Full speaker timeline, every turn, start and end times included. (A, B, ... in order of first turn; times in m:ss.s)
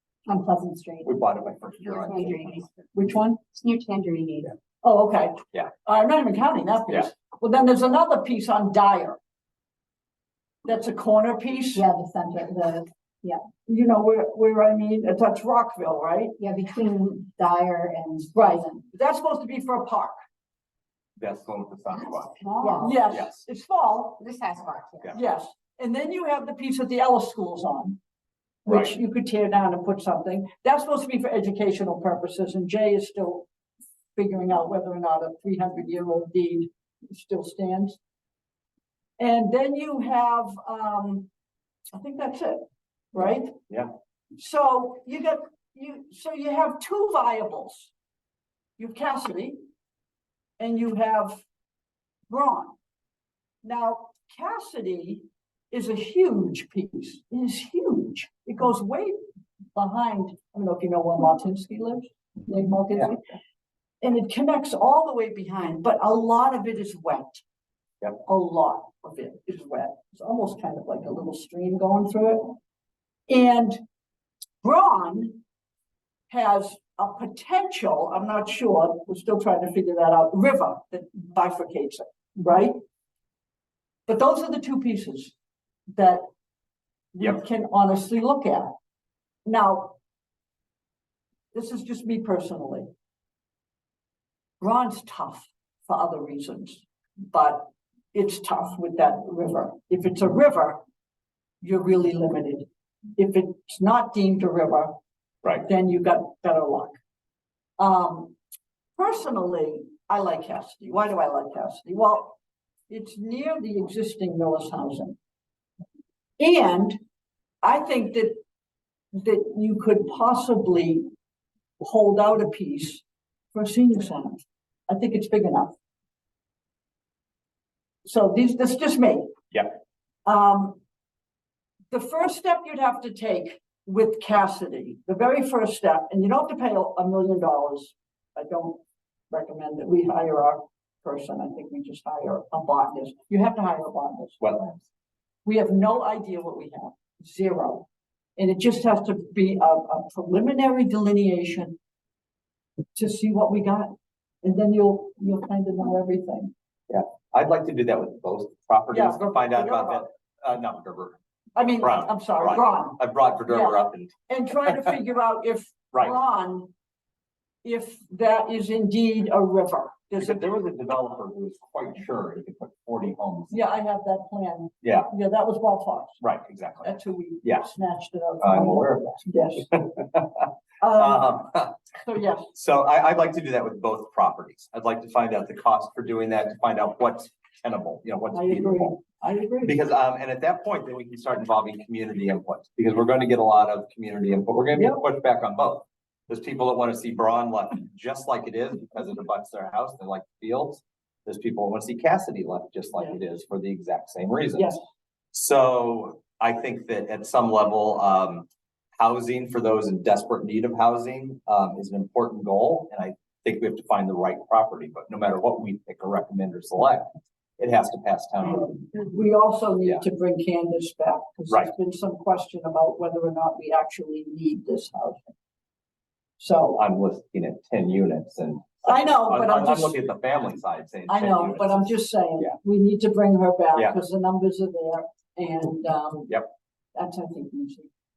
0:00.2-0:01.2 A
0:01.0-0:02.6 B
0:01.8-0:02.9 A
0:02.9-0:03.4 C
0:03.5-0:04.5 A
0:04.8-0:09.2 C
0:10.6-0:11.8 C
0:11.7-0:13.4 A
0:13.6-0:16.4 C
0:16.4-0:18.8 A
0:18.3-0:20.1 C
0:21.2-0:23.5 B
0:22.4-0:23.0 A
0:22.6-0:24.2 C
0:24.2-0:25.1 A
0:25.1-0:28.0 C
0:28.6-0:33.4 C
0:28.6-0:28.9 B
0:34.2-0:38.0 C
0:39.2-0:41.3 C
0:41.9-0:43.5 C
0:43.2-0:43.9 B
0:44.4-0:47.9 C
0:48.8-0:49.6 C
0:50.6-0:51.4 C
0:52.3-0:52.7 C
0:53.6-0:59.2 C
0:59.7-1:03.3 C
1:04.0-1:07.4 C
1:08.2-1:12.6 C
1:13.3-1:13.8 C
1:14.6-1:15.4 C
1:16.3-1:22.8 C
1:24.1-1:25.3 C
1:25.9-1:26.2 C
1:27.2-1:28.7 C
1:29.4-1:29.9 C
1:31.5-1:32.9 C
1:34.6-1:40.8 C
1:41.6-1:42.6 C
1:43.2-1:44.9 C
1:45.6-1:46.9 C
1:47.8-1:48.3 C
1:49.0-1:52.4 C
1:52.9-1:55.2 C
1:56.4-1:57.0 C
1:57.6-1:58.4 C
1:59.1-2:01.0 C
2:01.8-2:03.0 C
2:03.5-2:05.7 C
2:08.0-2:09.3 C
2:10.2-2:10.8 C
2:11.9-2:18.8 C
2:19.3-2:24.4 C
2:24.4-2:24.8 B
2:25.4-2:27.8 C
2:28.4-2:31.7 C
2:32.9-2:36.5 C
2:36.9-2:41.2 B
2:38.9-2:40.1 C
2:41.6-2:46.7 C
2:41.8-2:44.1 B
2:44.6-2:44.9 B
2:47.6-2:50.4 C
2:50.2-2:53.6 B
2:53.5-2:56.2 C
2:54.8-2:55.1 B
2:56.2-2:56.9 B
2:56.8-2:59.7 C
2:58.4-2:59.1 B
2:59.7-3:01.8 B
3:00.8-3:02.5 C
3:02.5-3:09.0 B
3:08.3-3:09.8 C
3:09.6-3:24.8 B
3:14.7-3:15.0 C
3:25.3-3:28.5 B
3:29.0-3:37.0 B
3:37.6-3:38.9 B
3:38.9-3:45.3 C
3:46.4-3:46.8 C
3:46.7-3:52.5 B
3:48.8-3:50.0 C
3:51.1-3:56.4 C
3:56.9-3:57.9 C